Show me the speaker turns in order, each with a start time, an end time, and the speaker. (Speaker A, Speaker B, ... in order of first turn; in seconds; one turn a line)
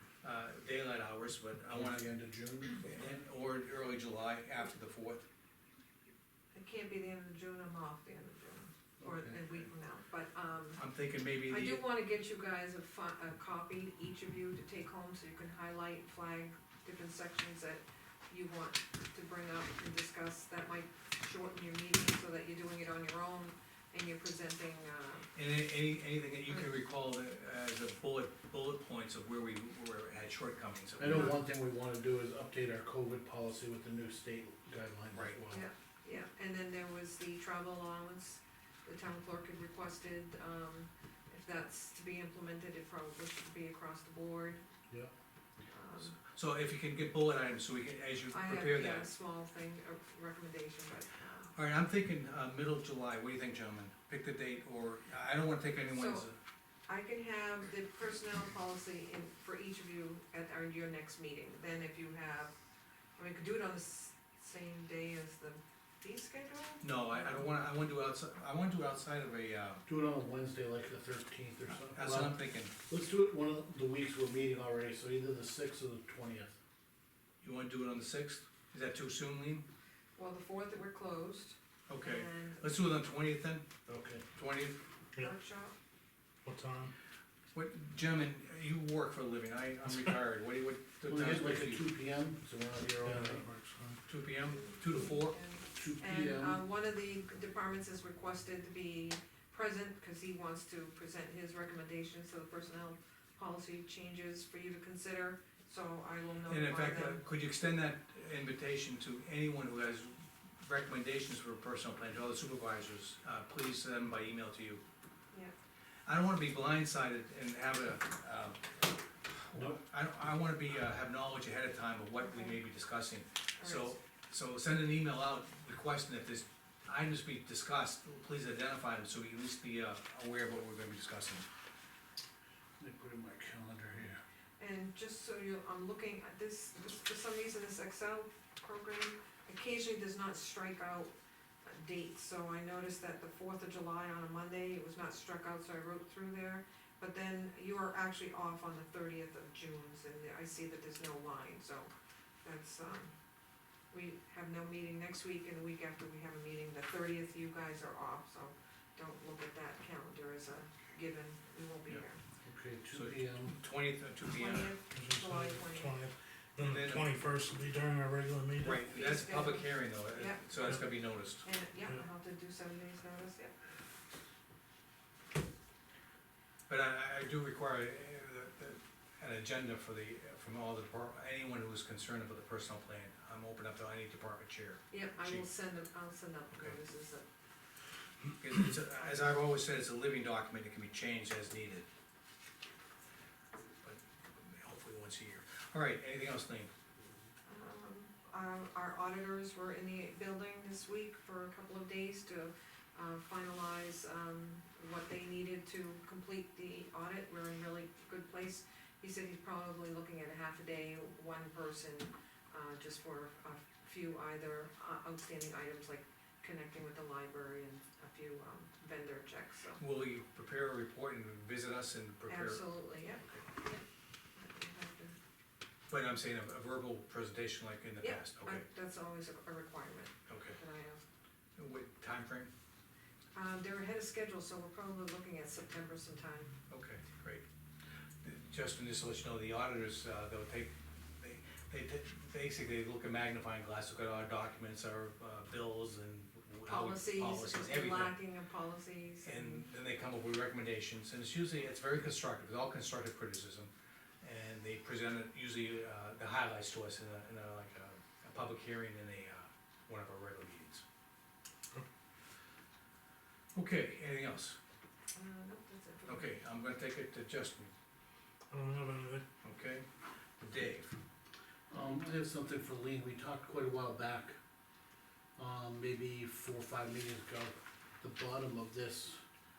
Speaker A: 0.2-2.1
Speaker B: 1.7-3.2
Speaker A: 2.8-5.2
Speaker C: 6.5-10.8
Speaker B: 9.0-9.2
Speaker A: 10.8-11.8
Speaker C: 11.5-25.3
Speaker A: 25.3-31.3
Speaker B: 31.0-35.6
Speaker A: 35.1-35.4
Speaker C: 35.5-44.6
Speaker C: 45.7-46.2
Speaker A: 46.1-49.1
Speaker C: 48.3-51.5
Speaker A: 51.5-56.4
Speaker C: 55.9-56.3
Speaker C: 56.9-62.5
Speaker C: 63.2-67.5
Speaker A: 66.8-69.8
Speaker B: 69.9-76.5
Speaker A: 71.7-72.7
Speaker A: 77.4-79.6
Speaker C: 80.2-82.7
Speaker A: 81.9-83.7
Speaker B: 83.9-84.2
Speaker A: 84.3-84.8
Speaker C: 85.2-85.7
Speaker D: 86.5-86.9
Speaker A: 87.5-91.8
Speaker B: 91.0-93.5
Speaker D: 93.0-94.0
Speaker A: 94.1-95.4
Speaker C: 94.5-107.2
Speaker B: 95.8-96.6
Speaker A: 106.5-114.8
Speaker A: 116.0-118.6
Speaker A: 119.3-131.5
Speaker C: 122.2-122.5
Speaker C: 123.6-124.0
Speaker B: 132.8-134.2
Speaker C: 134.6-141.1
Speaker C: 141.6-151.9
Speaker C: 152.4-153.1
Speaker C: 153.9-162.2
Speaker B: 162.4-163.6
Speaker A: 162.9-164.8
Speaker C: 164.3-165.9
Speaker D: 164.9-168.8
Speaker A: 166.6-167.1
Speaker A: 168.6-171.4
Speaker C: 168.8-170.8
Speaker C: 171.4-173.5
Speaker A: 176.7-185.5
Speaker C: 184.9-187.2
Speaker A: 186.5-186.8
Speaker A: 188.4-191.8
Speaker A: 193.8-196.7
Speaker C: 197.5-219.8
Speaker A: 219.8-222.7
Speaker C: 222.3-223.8
Speaker C: 224.3-225.2
Speaker A: 225.9-228.6
Speaker C: 228.0-231.0
Speaker A: 230.3-230.6
Speaker A: 231.6-232.5
Speaker C: 233.3-236.5
Speaker A: 236.7-237.4
Speaker A: 238.2-248.2
Speaker C: 246.7-249.6
Speaker A: 249.2-253.7
Speaker A: 254.2-260.8
Speaker A: 263.5-264.6
Speaker C: 265.1-266.3
Speaker A: 266.1-267.7
Speaker D: 268.5-269.2
Speaker A: 269.4-269.8
Speaker A: 270.4-270.9
Speaker B: 271.7-274.4
Speaker B: 275.4-279.2